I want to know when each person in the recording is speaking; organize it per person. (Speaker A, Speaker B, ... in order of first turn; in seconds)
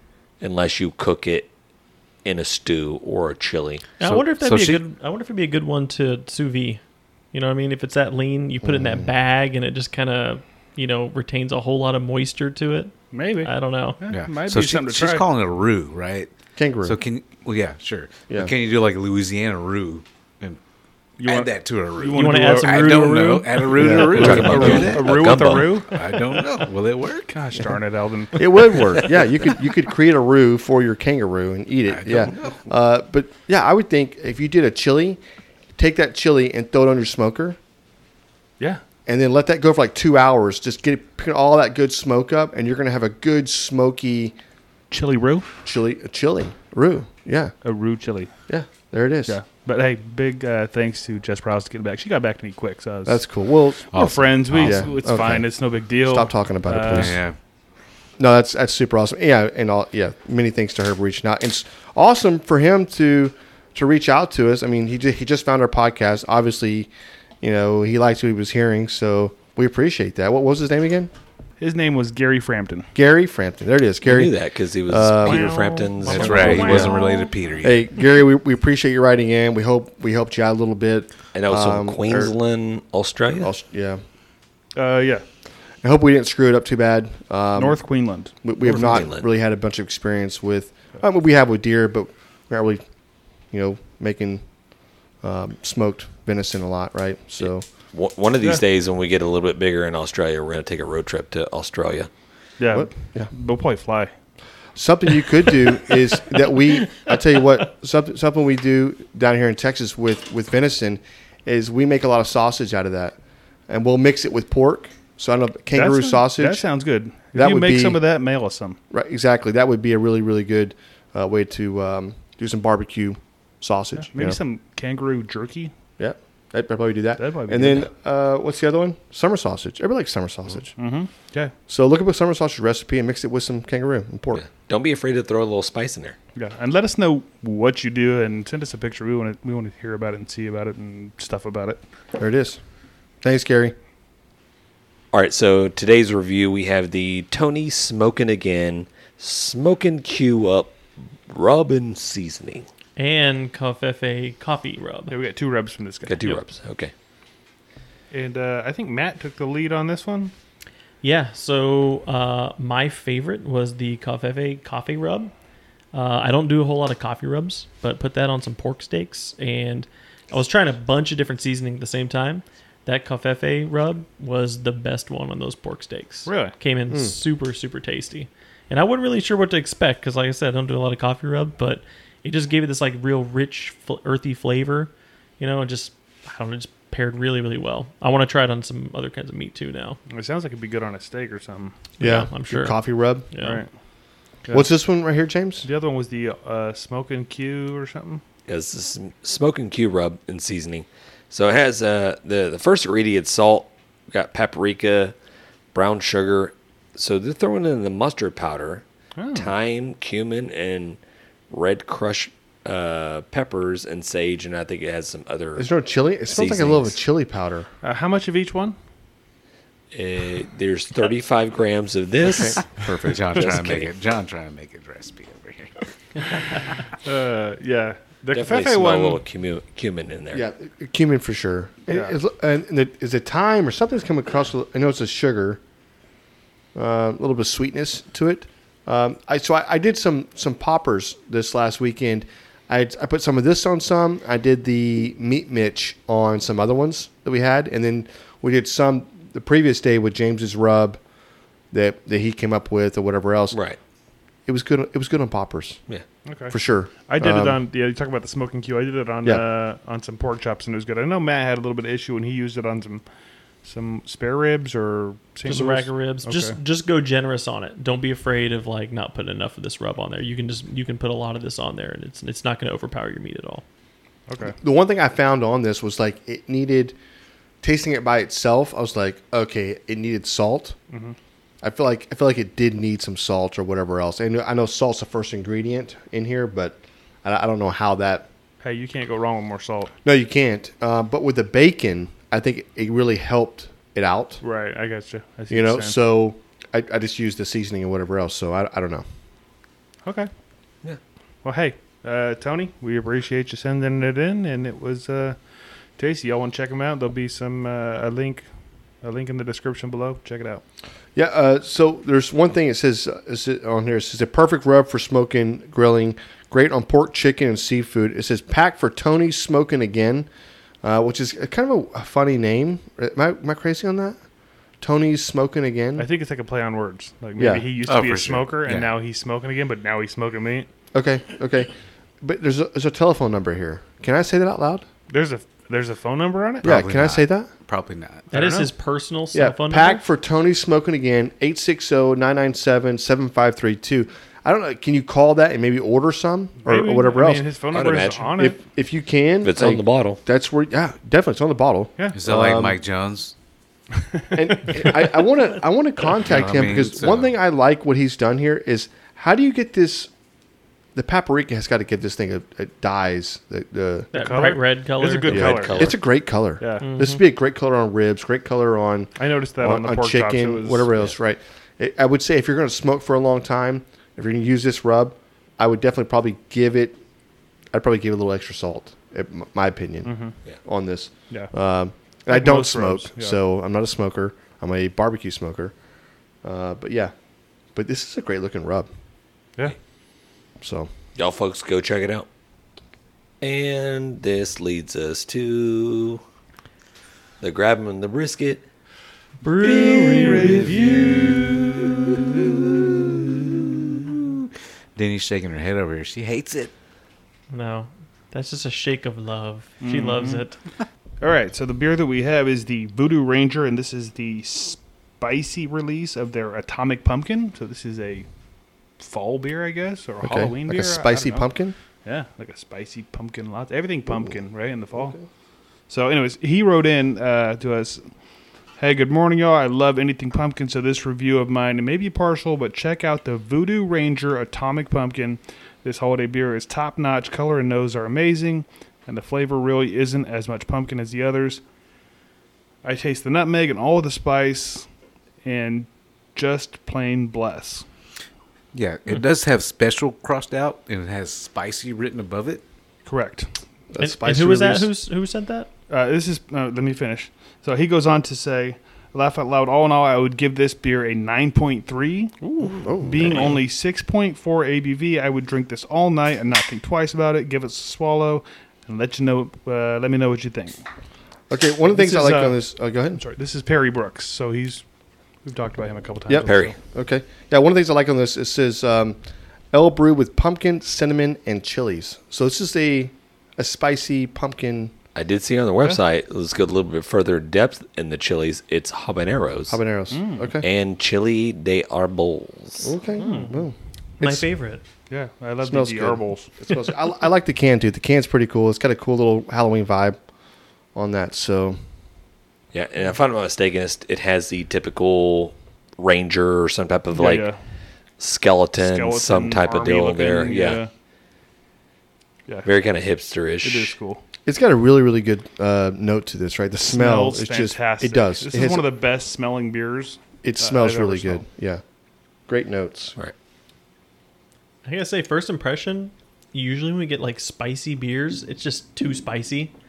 Speaker A: 0.4-1.5, 2.2-3.9, 24.1-25.8, 74.0-76.9, 81.3-83.5, 88.6-89.3, 97.4-102.1, 134.3-136.2, 145.1-150.8, 151.3-152.7, 156.1-156.9, 198.5-205.2, 205.7-211.0, 211.5-215.7, 216.3-217.0, 219.9-223.9, 228.3-230.4, 253.5-253.8, 347.7-348.3, 349.4-350.2, 365.3-366.0, 391.2-392.3, 393.4-396.2, 397.4-398.6, 399.6-402.4, 476.4-476.8, 485.1-489.8, 490.6-492.9, 502.7-507.5, 508.2-510.8, 512.6-514.0
Speaker B: 4.0-6.8, 7.3-14.0, 22.1-24.1, 75.3-77.3, 153.0-155.2, 161.0-165.3, 165.9-190.0, 192.0-193.6, 265.5-273.6, 338.3-340.0, 364.1-365.6, 366.8-367.2, 399.4-401.9, 407.5-410.6, 454.0-455.7, 493.2-493.6, 494.2-494.8, 524.9-529.7
Speaker C: 4.0-4.8, 14.1-16.3, 16.8-20.6, 21.2-25.1, 25.8-27.4, 31.9-32.6, 53.9-55.0, 56.9-57.4, 76.1-77.8, 222.9-226.8, 327.8-328.9, 336.6-338.3, 352.1-353.3, 356.2-357.3, 405.0-406.7, 448.7-452.6
Speaker D: 8.6-9.1, 16.6-17.0, 23.8-24.8, 28.4-35.2, 35.8-37.6, 39.1-44.4, 45.6-47.5, 48.5-49.4, 53.1-54.0, 54.6-57.2, 58.2-66.9, 67.4-71.1, 73.0-74.3, 74.9-75.5, 76.5-76.9, 77.6-82.3, 83.4-84.0, 85.8-87.8, 88.4-92.8, 93.5-94.4, 95.2-97.7, 102.7-103.3, 104.8-113.2, 113.7-116.6, 117.3-118.0, 118.9-124.4, 126.0-130.7, 131.7-134.4, 142.2-142.6, 143.2-143.8, 176.9-177.2, 192.0-193.3, 194.5-195.7, 215.6-217.7, 222.3-223.5, 230.3-235.6, 236.8-251.0, 251.7-253.6, 254.5-255.8, 256.5-257.6, 274.5-277.0, 277.6-280.8, 281.6-288.3, 290.1-294.4, 295.5-299.1, 311.1-320.3, 320.8-324.2, 324.8-326.1, 327.4-327.7, 330.9-334.9, 336.6-337.5, 339.3-347.5, 348.4-352.8, 354.3-360.1, 360.9-364.1, 365.3-377.0, 377.7-385.7, 386.4-387.1, 387.7-388.9, 390.6-390.9, 420.2-421.8, 453.9-454.9, 462.8-463.5, 471.5-473.2, 476.3-479.2, 479.7-484.9, 489.7-490.7, 492.8-494.5, 495.6-500.2, 500.9-501.8, 514.5-518.9, 520.4-521.8, 522.5-523.2
Speaker E: 13.1-15.2, 21.2-22.8, 23.9-26.1, 27.3-29.1, 44.9-45.6, 47.6-48.3, 49.3-53.3, 53.9-57.2, 71.6-72.9, 76.1-76.9, 84.8-85.2, 87.5-88.3, 102.6-104.1, 115.7-118.8, 124.0-125.7, 127.2-127.9, 130.8-131.5, 136.3-141.8, 155.1-156.4, 158.1-160.3, 176.3-176.6, 190.1-191.8, 193.4-193.7, 195.6-198.2, 209.2-209.5, 217.8-218.8, 227.0-229.2, 231.9-232.2, 256.3-263.0, 263.6-266.6, 274.3-274.6, 280.9-281.2, 288.6-289.9, 294.4-296.0, 300.1-300.3, 301.4-305.4, 305.9-308.5, 309.0-310.6, 326.0-330.7, 335.1-336.8, 338.3-338.7, 346.6-348.6, 354.1-354.9, 364.1-366.0, 366.6-366.9, 369.2-370.9, 380.0-380.4, 382.3-383.4, 400.2-400.8, 409.8-410.5, 411.2-418.3, 419.0-421.5, 422.1-425.2, 425.9-428.1, 428.8-441.6, 442.8-444.9, 445.4-447.9, 453.1-453.5, 455.9-470.8, 471.9-472.6, 473.1-474.9, 475.4-476.8, 490.1-490.5, 493.2-493.5, 495.1-496.5, 507.1-507.6, 508.8-510.9, 513.6-514.2, 516.9-521.5